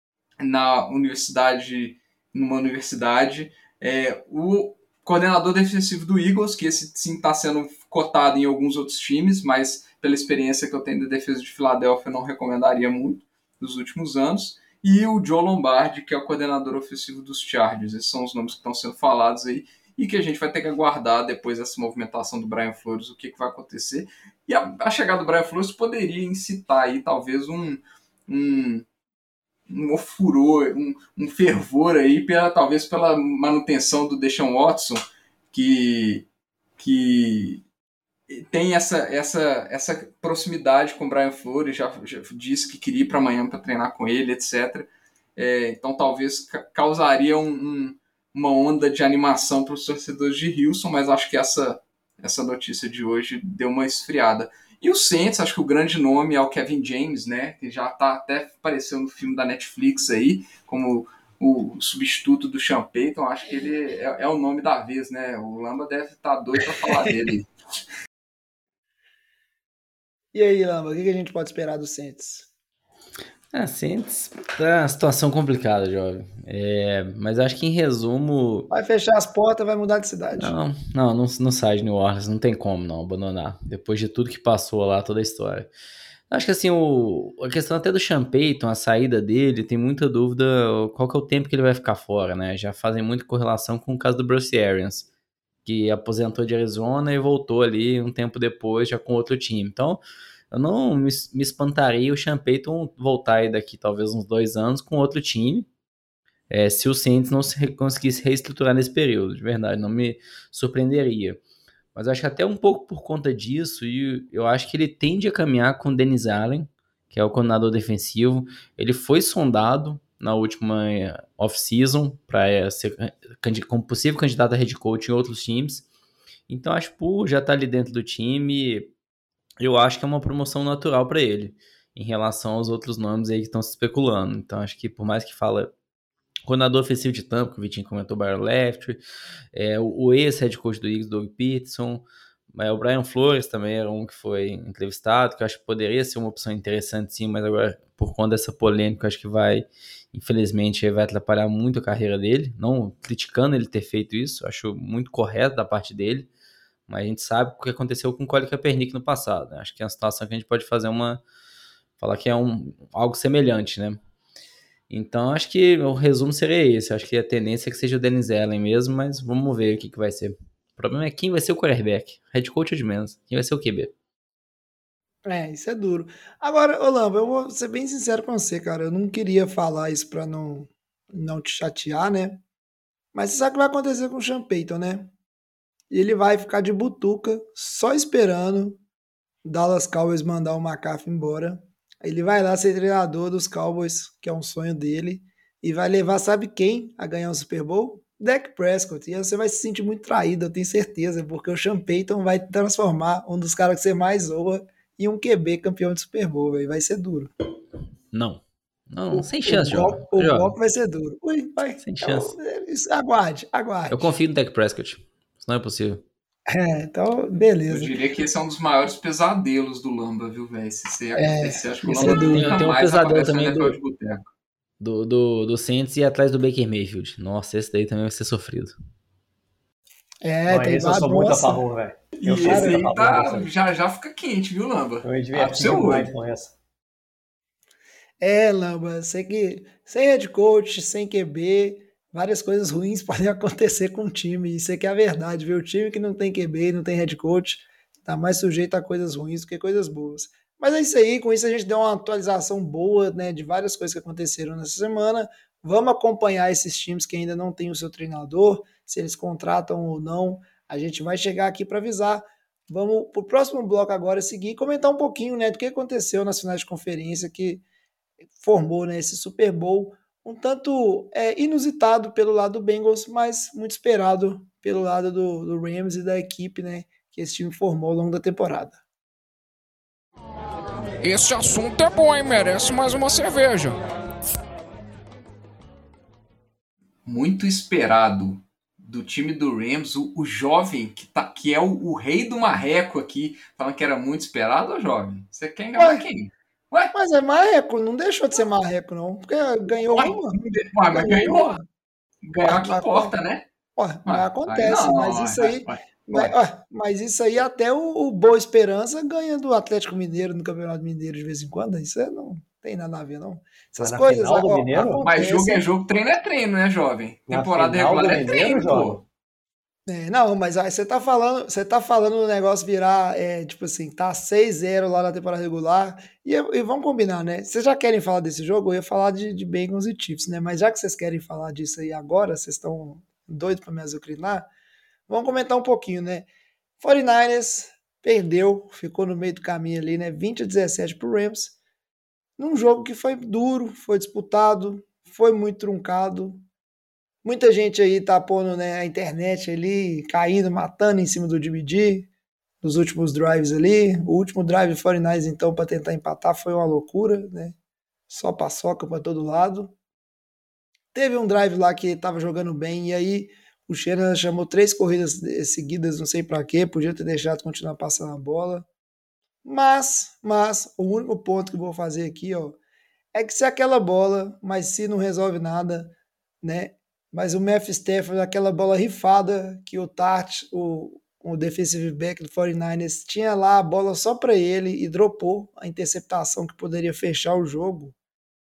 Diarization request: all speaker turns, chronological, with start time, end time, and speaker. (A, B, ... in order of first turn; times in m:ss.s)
0:00.4-0:28.8 A
0:29.7-0:36.2 A
0:36.8-0:37.6 A
0:38.3-1:07.5 A
1:10.3-1:12.5 B
1:13.5-1:18.7 C
1:18.7-1:20.5 B
1:20.4-1:25.7 C
1:26.3-1:35.1 C
1:35.6-1:45.7 C
1:46.5-1:51.4 C
1:51.9-2:05.9 C
2:06.5-2:08.9 C
2:09.6-2:15.7 C
2:16.4-2:19.0 C
2:19.5-2:36.3 C
2:36.9-2:41.2 C
2:42.0-2:44.0 C
2:44.9-2:53.9 C
2:55.3-3:02.4 B
3:03.1-3:05.1 B
3:05.9-3:08.8 B
3:09.4-3:27.3 B
3:28.1-3:30.5 C
3:29.1-3:34.1 B
3:31.8-3:32.3 C
3:33.9-3:36.0 C
3:36.5-3:37.9 B
3:37.7-3:44.3 A
3:41.1-3:42.5 B
3:41.8-3:43.8 C
3:44.8-3:48.7 C
3:50.2-3:51.6 B
3:50.5-3:53.5 D
3:52.2-3:52.9 B
3:52.2-3:56.1 A
3:55.0-3:56.5 D
3:58.2-4:27.6 B
4:28.4-4:38.8 B
4:41.0-4:43.8 E
4:47.0-4:56.9 A
4:55.8-4:56.0 B
4:56.9-5:01.6 B
4:59.7-5:01.6 A
5:02.2-5:03.4 A
5:02.4-5:03.2 B
5:03.8-5:15.6 B
5:04.0-5:06.4 A
5:13.8-5:15.0 D
5:15.0-5:19.0 A
5:17.3-5:19.0 D
5:19.9-5:34.5 B
5:35.1-5:36.3 B
5:36.8-5:41.5 B
5:42.4-5:46.4 B
5:47.2-5:52.1 B
5:52.6-5:57.5 B
5:58.1-5:59.7 B
6:00.9-6:08.6 B
6:09.4-6:12.6 B
6:13.1-6:27.9 B